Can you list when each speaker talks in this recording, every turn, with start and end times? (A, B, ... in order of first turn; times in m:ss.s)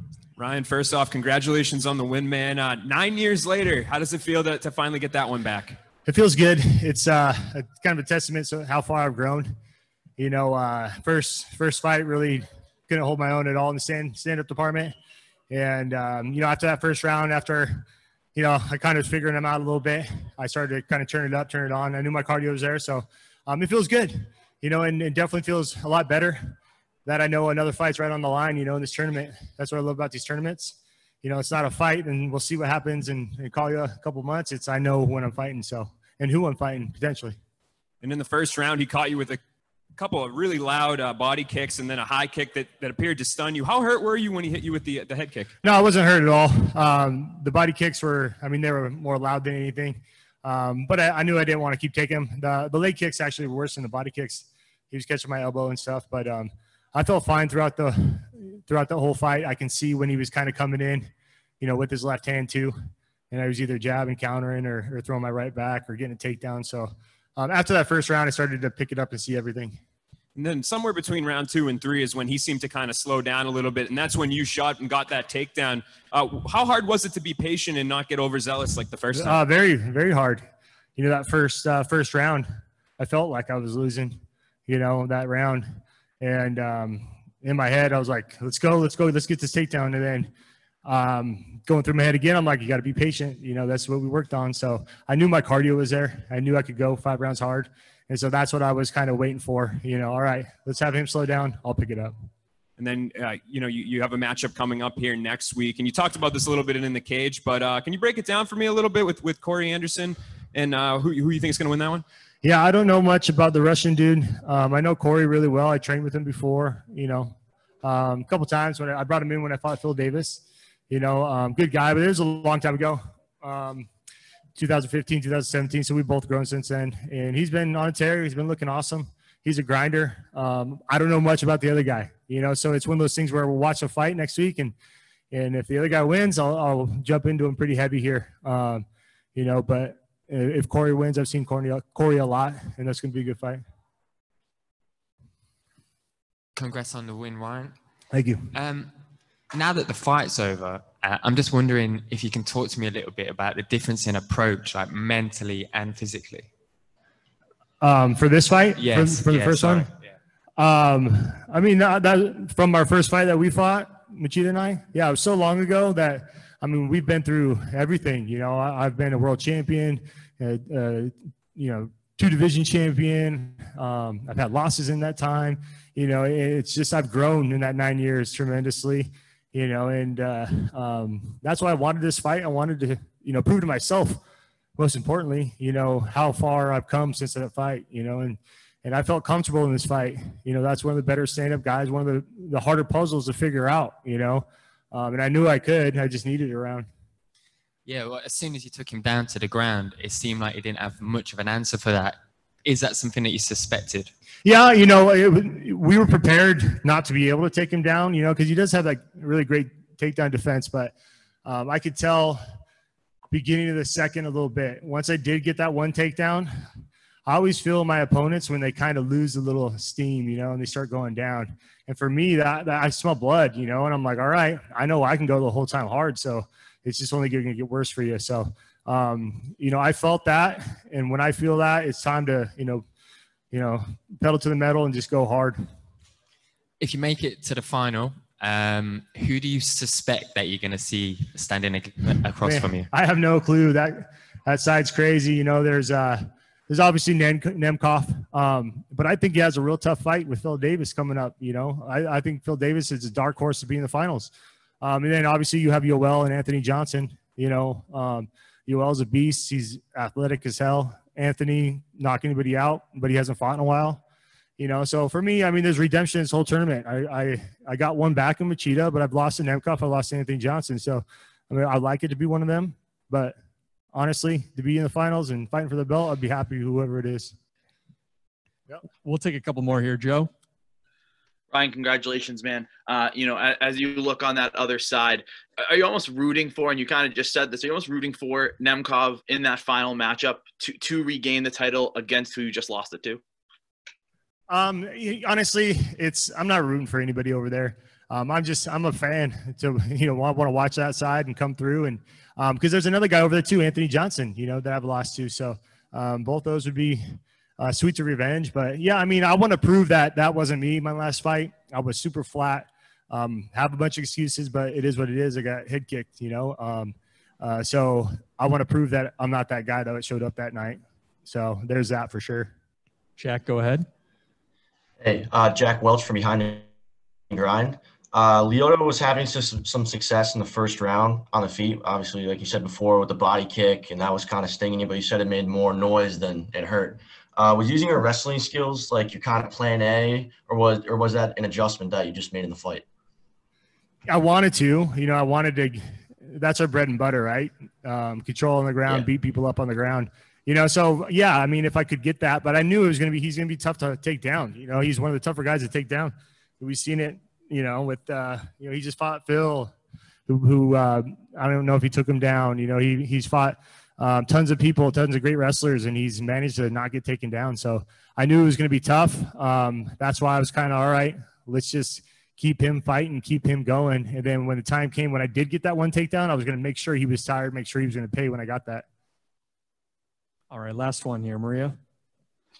0:00.4-0:05.7 A
0:06.0-0:09.5 B
0:10.2-0:14.9 B
0:15.5-0:37.4 B
0:38.0-0:39.4 A
0:40.0-0:45.5 A
0:45.6-1:01.1 B
1:01.6-1:02.7 B
1:03.3-1:09.8 B
1:10.3-1:19.4 A
1:19.1-1:20.4 B
1:21.0-1:22.4 B
1:23.0-1:25.7 B
1:26.2-1:30.3 B
1:30.8-1:42.1 B
1:42.8-1:52.0 A
1:52.4-2:03.9 B
2:04.5-2:14.7 B
2:15.3-2:18.8 B
2:19.3-2:23.6 B
2:26.6-2:27.7 C
2:28.1-2:28.4 B
2:28.5-2:28.9 C
2:29.5-2:36.5 C
2:37.8-2:39.9 B
2:38.8-2:39.9 C
2:40.6-3:04.2 B
3:04.8-3:16.9 B
3:17.8-3:24.1 C
3:24.4-3:30.9 B
3:31.4-3:32.4 B
3:33.3-3:36.5 B
3:37.2-3:52.8 B
3:53.5-3:55.6 B
3:56.8-4:02.9 C
4:02.4-4:24.0 B
4:24.6-4:33.4 B
4:33.9-4:37.3 B
4:39.0-4:40.3 D
4:41.5-4:53.2 E
4:54.5-5:22.5 B
5:23.2-5:23.9 D
5:25.0-5:26.6 F
5:27.3-5:42.8 F
5:44.1-5:59.7 B
6:00.3-6:18.8 B
6:20.5-6:21.8 D